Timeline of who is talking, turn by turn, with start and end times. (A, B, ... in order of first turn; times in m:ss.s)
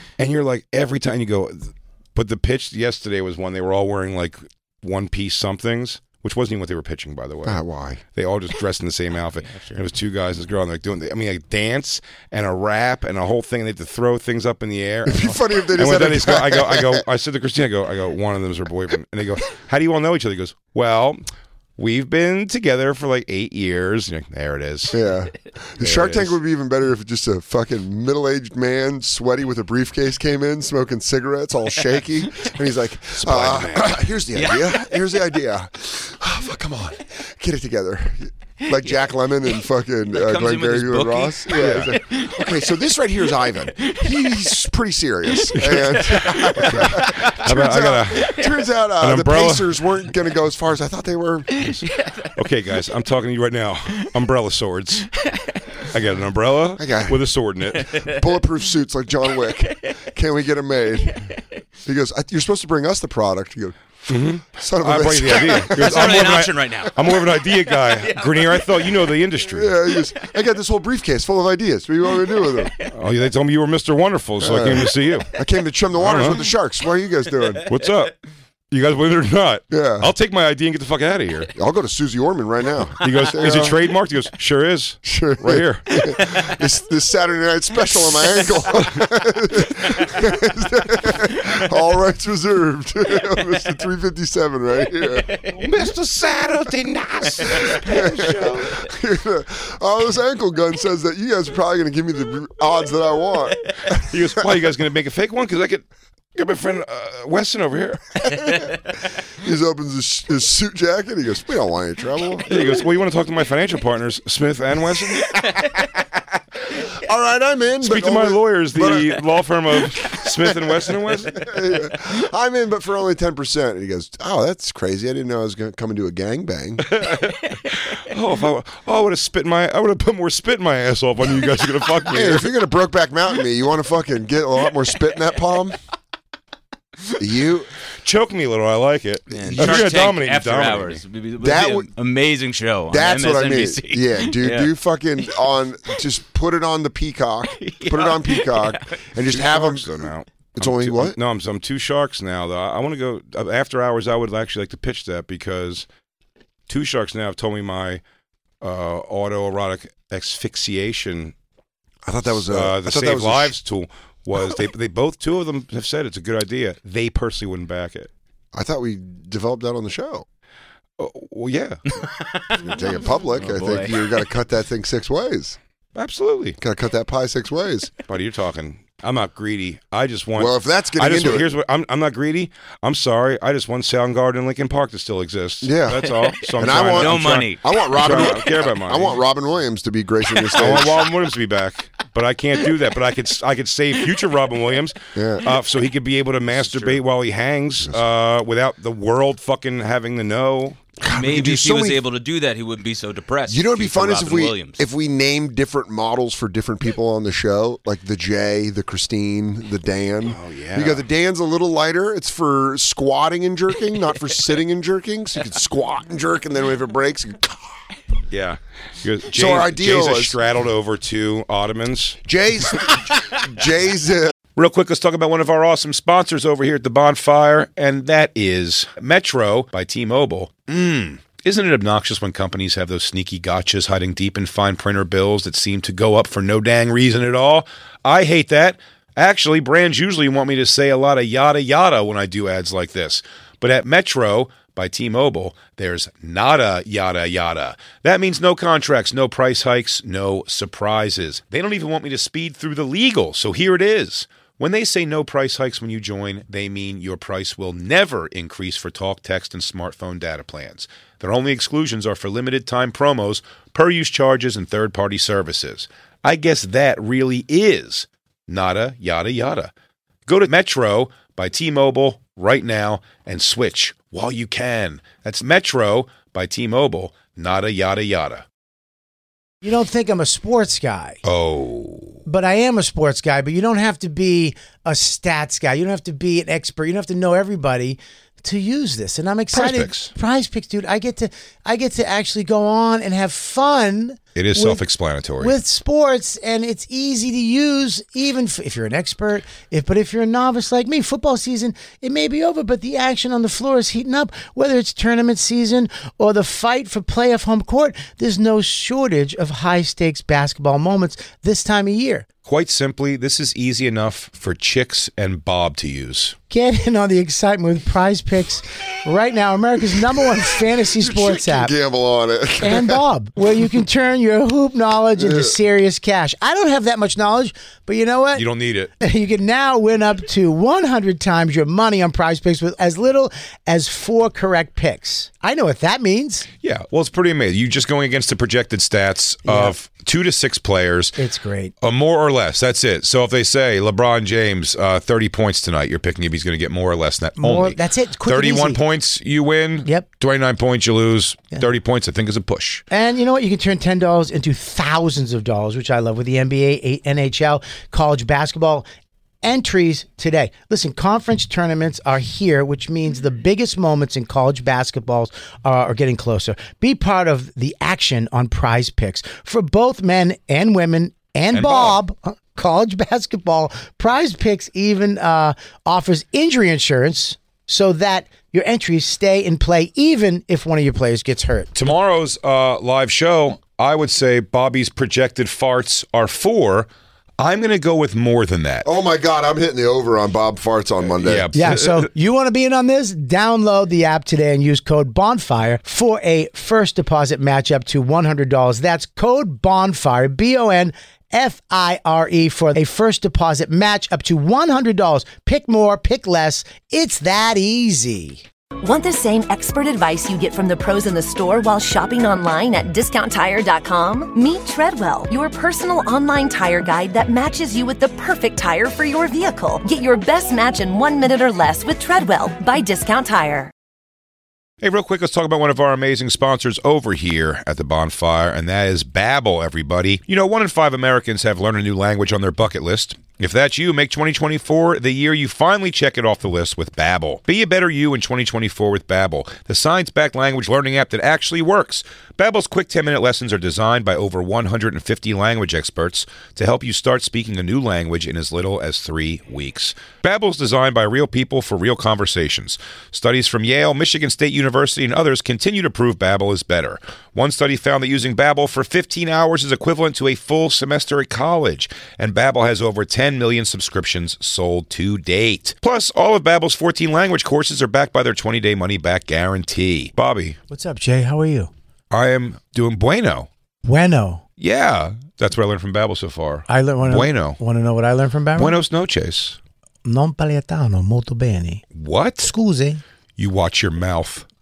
0:00.2-0:07.6 A
0:07.4-0:08.0 B
0:08.1-0:21.2 A
0:09.5-0:09.8 C
0:15.0-0:17.0 B
0:21.8-0:25.0 A
0:24.9-0:51.7 B
0:25.8-0:26.3 A
0:33.2-0:34.0 A
0:34.4-0:34.8 C
0:38.7-0:39.0 C
0:40.1-0:42.6 C
0:41.6-0:42.0 A
0:43.8-0:44.5 C
0:45.4-0:47.4 C
0:45.6-0:49.7 A
0:51.6-0:52.3 C
0:51.6-0:55.1 A
0:55.2-0:55.6 C
0:55.9-0:57.9 A
0:56.8-0:57.3 B
0:57.7-0:58.2 C
0:57.8-1:01.3 B
1:01.8-1:07.1 B
1:04.1-1:09.7 A
1:05.4-1:09.2 C
1:09.5-1:12.7 B
1:10.0-1:10.3 C
1:12.2-1:12.9 C
1:12.9-1:15.3 A
1:14.4-1:17.7 B
1:16.0-1:16.4 A
1:17.7-1:18.2 A
1:18.7-1:21.5 A
1:19.7-1:20.1 B
1:21.6-1:23.8 B
1:23.0-1:26.1 A
1:25.0-1:35.4 B
1:26.0-1:26.6 C
1:35.3-1:35.6 C
1:35.6-1:38.9 A
1:37.5-1:44.1 B
1:43.9-1:48.7 A
1:49.4-1:52.5 B
1:52.5-1:55.4 A
1:52.5-1:52.8 C
1:56.9-1:59.2 B
1:57.8-2:01.5 A
2:00.0-2:07.0 B
2:06.9-2:12.5 A
2:12.1-2:15.8 B
2:17.2-2:17.7 B
2:18.0-2:21.0 A
2:19.3-2:24.7 C
2:19.6-2:19.9 B
2:21.4-2:21.9 B
2:22.9-2:31.2 B
2:27.6-2:29.0 C
2:29.2-2:35.9 A
2:36.7-2:38.0 A
2:38.6-2:41.3 A
2:42.0-2:43.6 B
2:42.3-2:48.1 A
2:48.5-2:50.2 B
2:51.0-2:51.8 A
2:52.2-2:52.6 C
2:52.5-2:55.6 B
2:53.4-2:54.2 C
2:56.0-2:56.6 A
2:56.6-2:57.9 B
2:58.1-3:09.2 A
3:00.4-3:01.5 B
3:05.6-3:11.1 B
3:06.4-3:08.6 C
3:10.4-3:10.9 C
3:10.6-3:20.8 A
3:15.2-3:15.5 B
3:16.5-3:17.0 C
3:21.0-3:22.0 B
3:21.1-3:24.8 C
3:23.5-3:37.8 B
3:30.2-3:31.0 A
3:38.3-3:42.2 A
3:39.3-3:40.4 B
3:42.2-3:44.3 B
3:44.6-4:29.7 A
4:30.3-4:38.4 A
4:39.6-4:41.2 D
4:41.2-4:42.2 A
4:42.3-4:54.8 D
4:49.5-4:50.1 A
4:54.4-4:55.6 A
4:55.4-5:12.2 D
5:12.5-5:16.4 A
5:16.5-5:21.7 D
5:20.9-5:23.0 B
5:22.6-5:28.4 D
5:25.2-5:25.6 B
5:28.4-5:28.9 A
5:29.0-5:36.5 D
5:36.6-5:41.2 A
5:39.5-5:39.8 D
5:41.2-5:41.7 D
5:41.8-5:52.8 A
5:47.4-5:48.8 D
5:52.9-5:58.8 D
5:59.4-6:21.8 D
6:11.5-6:12.0 A
6:21.8-6:28.9 A
6:28.8-6:31.5 B
6:31.2-6:32.1 A
6:31.6-6:48.4 D
6:48.8-7:03.7 E
7:04.8-7:50.6 A
7:50.7-7:51.7 D
7:52.1-7:53.5 A
7:53.8-7:54.4 D
7:54.6-7:57.6 A
7:56.7-7:58.8 D
7:58.6-7:59.6 A
8:00.0-8:01.8 D
8:01.9-8:02.5 A
8:02.4-8:03.0 D
8:03.4-8:04.5 A